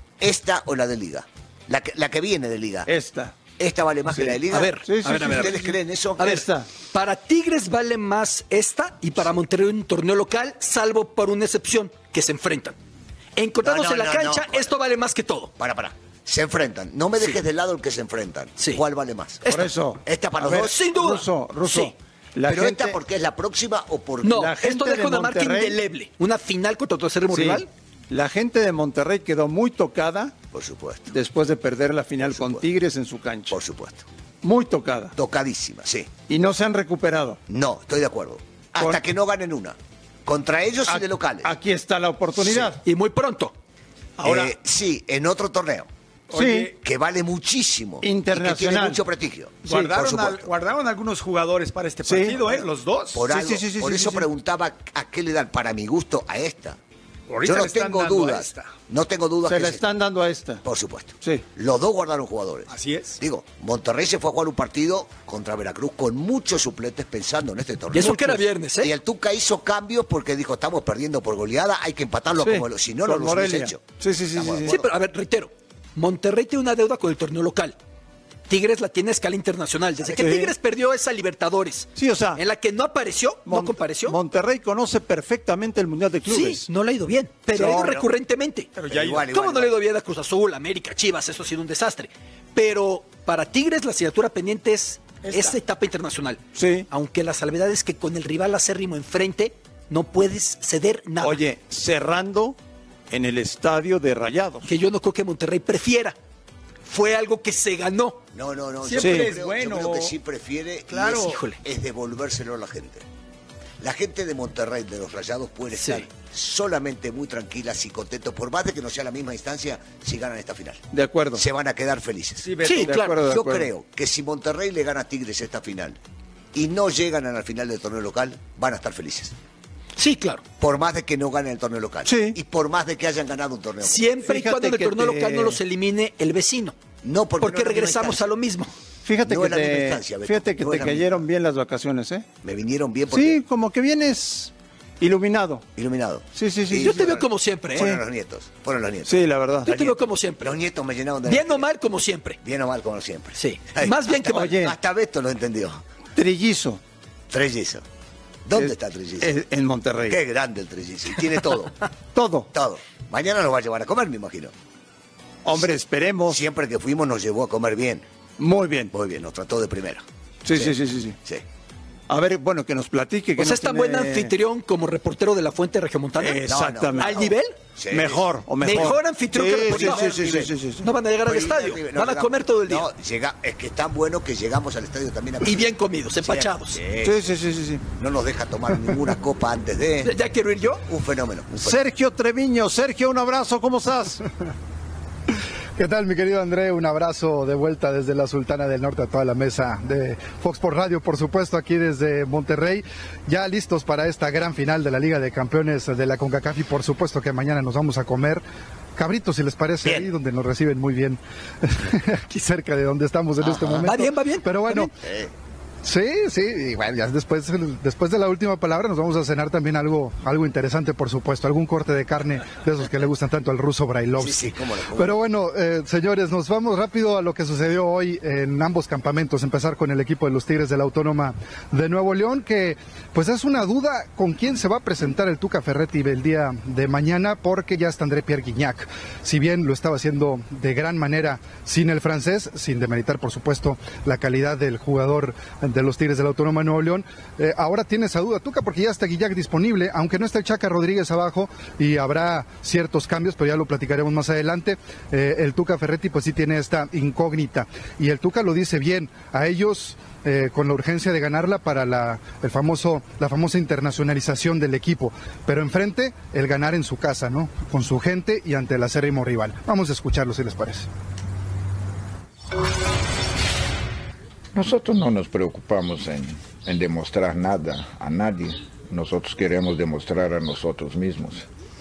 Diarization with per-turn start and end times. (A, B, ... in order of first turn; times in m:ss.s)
0:00.2-0:02.9 A
0:02.9-0:03.4 B
0:03.6-0:06.3 A
0:04.1-0:06.7 B
0:04.5-0:05.6 C
0:06.2-0:12.8 C
0:13.4-0:15.5 C
0:13.6-0:14.8 A
0:15.6-0:20.8 A
0:19.5-0:23.0 B
0:20.5-0:21.9 C
0:22.5-0:24.5 A
0:24.2-0:27.7 C
0:24.3-0:25.8 B
0:27.3-0:30.4 B
0:30.5-0:31.2 A
0:31.1-0:33.6 B
0:32.3-0:32.7 A
0:33.5-0:34.1 A
0:34.4-0:35.1 B
0:35.2-0:36.1 A
0:36.3-0:37.4 B
0:37.5-0:41.5 A
0:40.9-0:42.8 B
0:42.4-0:42.7 A
0:42.8-0:43.6 C
0:44.2-0:45.9 A
0:44.2-0:44.5 D
0:46.3-0:46.7 D
0:46.3-0:46.7 B
0:46.7-0:50.5 A
0:48.0-0:49.0 B
0:49.6-0:53.3 D
0:49.7-0:50.0 B
0:52.0-0:52.5 B
0:53.1-0:56.8 A
0:53.2-0:54.3 B
0:57.3-0:58.7 D
0:57.4-0:59.8 A
0:59.4-1:00.6 B
1:00.6-1:14.9 A
1:02.7-1:03.2 D
1:07.9-1:08.9 C
1:12.4-1:14.8 B
1:14.7-1:17.8 C
1:18.5-1:24.2 C
1:20.2-1:20.5 B
1:22.0-1:22.4 B
1:23.5-1:26.7 B
1:26.3-1:41.4 C
1:27.5-1:28.0 B
1:27.6-1:28.0 A
1:28.8-1:29.3 D
1:28.9-1:29.7 A
1:35.2-1:35.5 D
1:36.6-1:36.9 B
1:41.2-1:42.6 B
1:43.1-1:44.7 B
1:44.6-1:46.2 C
1:46.8-1:48.2 C
1:48.3-1:53.1 A
1:48.8-1:50.2 D
1:49.0-1:49.4 B
1:50.9-1:51.4 D
1:51.1-1:51.6 C
1:53.8-2:06.0 A
1:55.8-1:56.1 C
2:00.9-2:01.4 B
2:02.4-2:02.9 D
2:02.6-2:03.2 C
2:02.8-2:03.7 B
2:06.5-2:09.4 A
2:10.0-2:10.4 C
2:10.6-2:14.3 A
2:12.1-2:12.4 B
2:13.8-2:16.8 C
2:14.3-2:15.6 B
2:17.0-2:18.3 A
2:17.4-2:18.7 C
2:19.0-2:22.3 B
2:19.2-2:21.3 A
2:22.4-2:23.4 A
2:23.1-2:25.6 B
2:25.8-2:31.7 A
2:26.4-2:27.1 B
2:26.8-2:27.9 C
2:29.1-2:29.7 B
2:29.7-2:30.5 C
2:31.3-2:32.4 C
2:32.4-2:35.8 A
2:33.4-2:34.6 C
2:34.3-2:34.7 B
2:36.2-2:36.8 B
2:37.3-2:37.8 A
2:38.5-2:39.4 A
2:38.6-2:40.2 B
2:40.1-2:41.8 A
2:42.2-2:42.5 B
2:42.5-2:44.5 A
2:45.4-2:46.4 B
2:46.3-2:48.0 A
2:48.4-2:48.9 B
2:48.9-2:51.4 A
2:50.4-2:51.2 B
2:52.1-2:54.3 B
2:53.4-2:56.4 C
2:56.2-2:57.3 B
2:56.4-2:58.3 A
2:57.0-2:57.6 C
2:57.9-3:00.9 B
2:58.6-3:00.1 C
2:59.6-3:00.5 A
3:00.8-3:02.9 C
3:01.2-3:07.2 A
3:05.4-3:06.8 C
3:07.0-3:07.8 B
3:08.0-3:10.1 A
3:10.0-3:10.8 C
3:10.9-3:11.8 A
3:11.6-3:14.2 B
3:15.8-3:28.4 E
3:29.0-3:34.9 E
3:29.8-3:30.1 A
3:33.4-3:33.9 A
3:33.8-3:34.9 C
3:35.0-3:35.3 A
3:35.8-3:44.4 E
3:44.2-3:45.2 A
3:45.0-4:30.9 E
4:34.5-4:41.5 F